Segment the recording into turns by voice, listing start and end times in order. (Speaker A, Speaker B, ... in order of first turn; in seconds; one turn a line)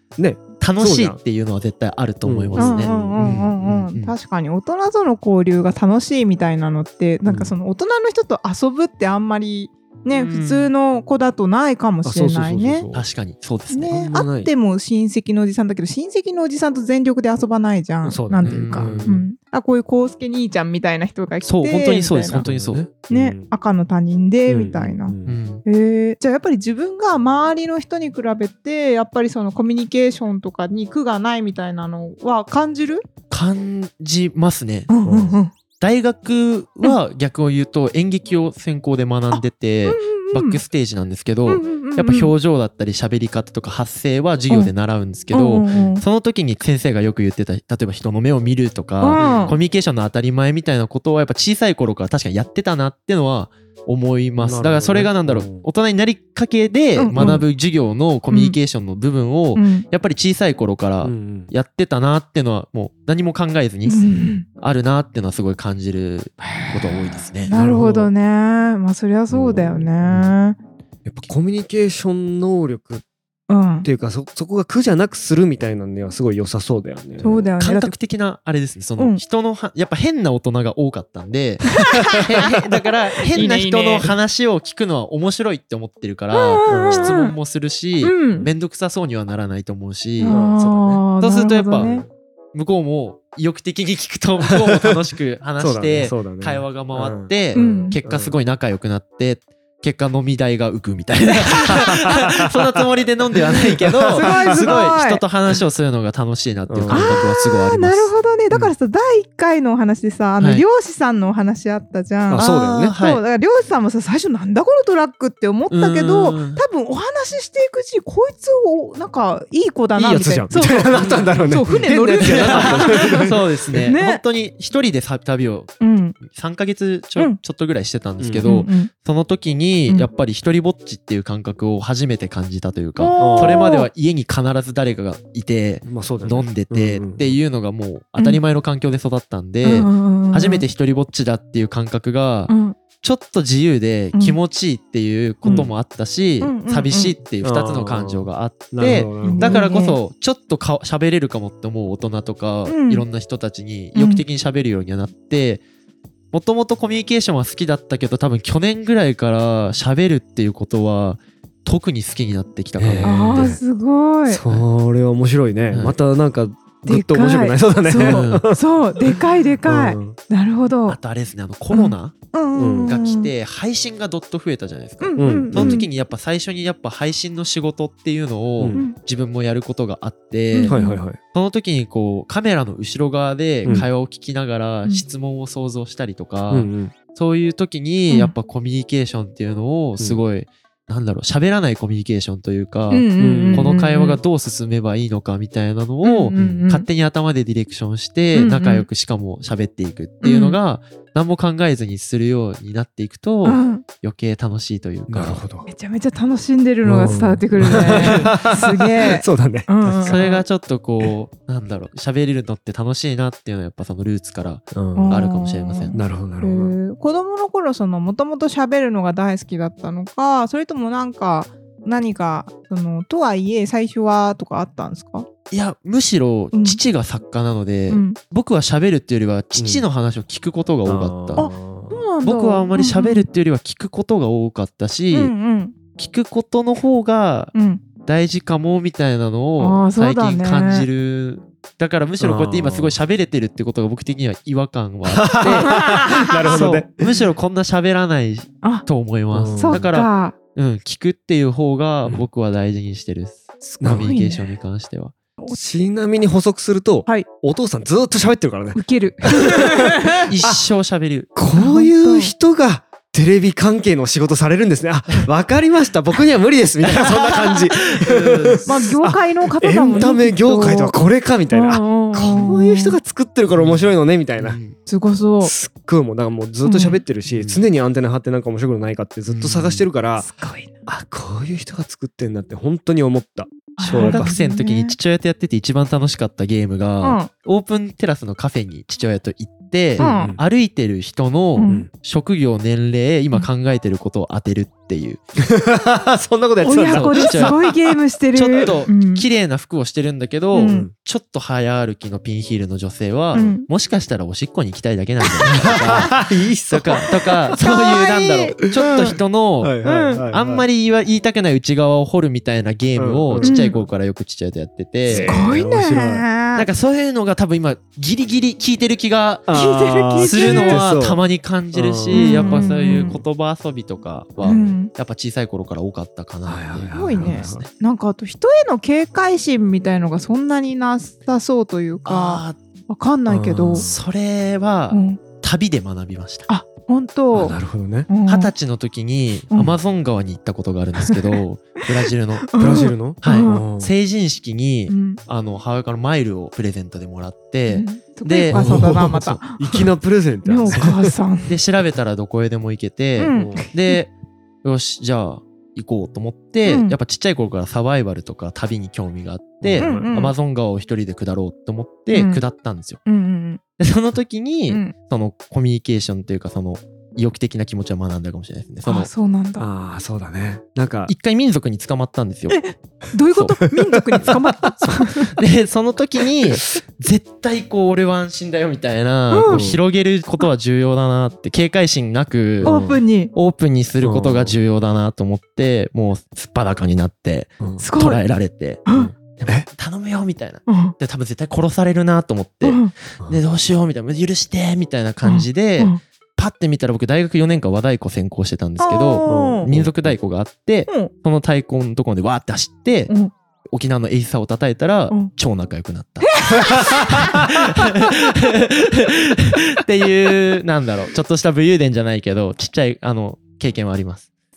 Speaker A: 0.2-1.2
Speaker B: 0.6-4.2
Speaker A: 2.2-3.5
Speaker C: 2.6-12.9
Speaker A: 7.2-7.5
Speaker B: 10.2-10.7
Speaker A: 12.0-13.1
Speaker B: 12.9-14.0
Speaker C: 13.7-22.5
Speaker A: 13.9-14.5
Speaker A: 18.0-19.3
Speaker B: 18.4-19.1
Speaker B: 21.5-22.9
Speaker A: 22.3-23.5
Speaker C: 23.1-25.1
Speaker A: 24.5-25.4
Speaker B: 25.3-25.6
Speaker C: 25.6-33.0
Speaker B: 33.3-35.0
Speaker C: 34.9-35.5
Speaker A: 35.1-35.4
Speaker B: 35.8-67.5
Speaker C: 39.3-40.6
Speaker C: 41.5-42.3
Speaker C: 45.3-46.0
Speaker C: 49.0-49.6
Speaker A: 49.1-49.6
Speaker A: 54.4-55.7
Speaker C: 57.0-57.5
Speaker A: 57.2-57.4
Speaker C: 58.3-58.6
Speaker C: 59.5-59.9
Speaker A: 61.0-61.5
Speaker C: 63.9-64.5
Speaker C: 66.5-70.6
Speaker A: 67.5-68.1
Speaker A: 69.3-70.3
Speaker A: 71.0-73.0
Speaker C: 73.5-73.9
Speaker A: 73.8-77.5
Speaker C: 77.2-77.9
Speaker B: 77.6-90.4
Speaker C: 81.8-82.5
Speaker C: 83.2-84.1
Speaker C: 86.3-87.3
Speaker A: 86.7-87.2
Speaker C: 88.0-88.5
Speaker C: 90.2-92.0
Speaker A: 90.3-91.0
Speaker B: 91.2-92.0
Speaker A: 91.8-92.1
Speaker B: 92.5-108.7
Speaker A: 94.5-95.0
Speaker A: 95.6-98.4
Speaker C: 97.5-98.0
Speaker C: 101.5-102.3
Speaker A: 101.7-102.8
Speaker A: 103.4-104.8
Speaker C: 104.1-105.2
Speaker A: 106.7-107.2
Speaker C: 106.9-123.3
Speaker A: 112.3-113.0
Speaker B: 112.4-113.2
Speaker B: 115.7-116.6
Speaker A: 120.0-123.9
Speaker B: 120.9-121.3
Speaker B: 122.2-155.6
Speaker C: 123.8-124.2
Speaker C: 125.8-126.2
Speaker A: 128.2-128.5
Speaker C: 128.4-128.9
Speaker C: 133.0-133.9
Speaker A: 133.2-133.7
Speaker A: 135.8-137.4
Speaker C: 139.6-140.7
Speaker C: 142.5-142.8
Speaker C: 145.4-145.7
Speaker A: 145.4-145.7
Speaker C: 146.4-147.2
Speaker A: 147.4-149.6
Speaker C: 149.2-150.0
Speaker C: 152.7-153.1
Speaker C: 153.9-154.2
Speaker B: 156.3-163.5
Speaker A: 162.8-163.6
Speaker C: 163.0-164.4
Speaker A: 164.3-170.2
Speaker B: 165.7-166.0
Speaker C: 166.8-171.0
Speaker B: 168.0-168.5
Speaker B: 170.9-172.2
Speaker C: 171.7-173.3
Speaker A: 172.6-172.9
Speaker B: 172.8-180.8
Speaker C: 175.0-175.9
Speaker A: 175.2-175.8
Speaker A: 178.6-178.9
Speaker C: 180.5-181.0
Speaker A: 180.7-181.2
Speaker B: 181.3-205.4
Speaker A: 186.5-186.9
Speaker C: 192.9-194.2
Speaker A: 193.2-193.7
Speaker C: 196.0-196.9
Speaker A: 196.3-196.7
Speaker C: 198.3-198.9
Speaker C: 200.2-200.6
Speaker C: 203.4-203.8
Speaker A: 205.1-205.7
Speaker C: 205.7-210.4
Speaker A: 206.8-210.3
Speaker B: 207.7-208.4
Speaker B: 210.0-216.0
Speaker A: 214.7-215.2
Speaker C: 214.9-225.3
Speaker A: 215.9-216.7
Speaker B: 225.5-231.5
Speaker C: 226.5-226.8
Speaker C: 227.9-228.2
Speaker A: 229.6-229.8
Speaker A: 230.9-232.0
Speaker C: 231.4-233.3
Speaker B: 232.2-235.3
Speaker C: 235.1-235.8
Speaker B: 236.0-255.2
Speaker C: 237.5-237.8
Speaker C: 239.6-240.9
Speaker A: 242.2-243.0
Speaker A: 245.1-247.1
Speaker C: 245.4-246.7
Speaker A: 249.3-249.9
Speaker C: 249.6-250.4
Speaker C: 253.7-254.5
Speaker A: 253.8-254.1
Speaker A: 255.5-260.6
Speaker C: 258.8-260.3
Speaker B: 260.2-261.3
Speaker A: 261.4-274.6
Speaker C: 261.5-262.3
Speaker B: 266.9-268.9
Speaker C: 268.6-273.0
Speaker B: 273.6-274.8
Speaker C: 274.9-275.5
Speaker A: 275.4-280.3
Speaker C: 276.6-277.0
Speaker B: 277.3-277.6
Speaker B: 279.3-279.9
Speaker C: 280.2-280.7
Speaker A: 280.9-284.3
Speaker C: 283.8-285.0
Speaker B: 283.9-295.2
Speaker C: 287.0-287.3
Speaker C: 290.0-290.4
Speaker A: 290.0-290.4
Speaker C: 291.6-291.9
Speaker A: 295.4-297.8
Speaker C: 296.6-299.3
Speaker B: 296.7-297.6
Speaker B: 298.3-315.4
Speaker C: 300.5-300.9
Speaker A: 300.6-300.9
Speaker C: 303.3-303.7
Speaker C: 305.2-306.2
Speaker A: 305.5-307.6
Speaker C: 307.5-308.6
Speaker A: 308.7-310.7
Speaker C: 309.8-310.2
Speaker A: 313.0-313.9
Speaker C: 313.4-313.8
Speaker A: 315.1-316.2
Speaker C: 315.1-316.7
Speaker B: 316.6-319.6
Speaker A: 319.5-321.2
Speaker C: 319.5-320.8
Speaker B: 320.2-327.7
Speaker A: 321.7-323.2
Speaker C: 322.1-323.2
Speaker C: 324.4-324.9
Speaker A: 326.5-327.7
Speaker C: 326.9-333.9
Speaker B: 332.1-332.6
Speaker A: 333.3-334.1
Speaker B: 333.7-336.5
Speaker C: 334.9-335.2
Speaker C: 336.5-337.6
Speaker A: 337.3-338.1
Speaker C: 338.1-338.5
Speaker B: 338.3-349.0
Speaker C: 339.5-339.8
Speaker C: 341.0-341.4
Speaker C: 342.5-343.7
Speaker A: 342.6-343.9
Speaker C: 344.9-345.2
Speaker C: 347.7-349.9
Speaker A: 348.5-351.1
Speaker C: 350.4-351.6
Speaker B: 351.4-354.1
Speaker C: 353.2-354.0
Speaker A: 353.3-353.7
Speaker B: 354.6-363.0
Speaker C: 356.7-357.0
Speaker A: 359.6-360.1
Speaker C: 359.8-360.4
Speaker C: 362.1-362.4
Speaker C: 363.1-363.6
Speaker B: 363.8-369.1
Speaker C: 364.7-364.9
Speaker C: 368.9-369.7
Speaker A: 369.6-371.1
Speaker B: 371.1-372.6
Speaker C: 372.5-375.4
Speaker B: 373.3-373.6
Speaker A: 373.9-374.4
Speaker B: 375.2-382.8
Speaker C: 379.3-379.6
Speaker A: 379.5-379.8
Speaker A: 382.6-383.0
Speaker C: 382.6-383.3
Speaker B: 383.3-403.1
Speaker A: 384.0-384.6
Speaker C: 387.8-388.2
Speaker C: 388.9-389.1
Speaker A: 388.9-389.7
Speaker C: 390.7-390.9
Speaker C: 392.6-392.9
Speaker C: 395.2-396.0
Speaker C: 398.8-399.7
Speaker A: 399.3-400.1
Speaker B: 403.7-414.3
Speaker C: 406.2-408.3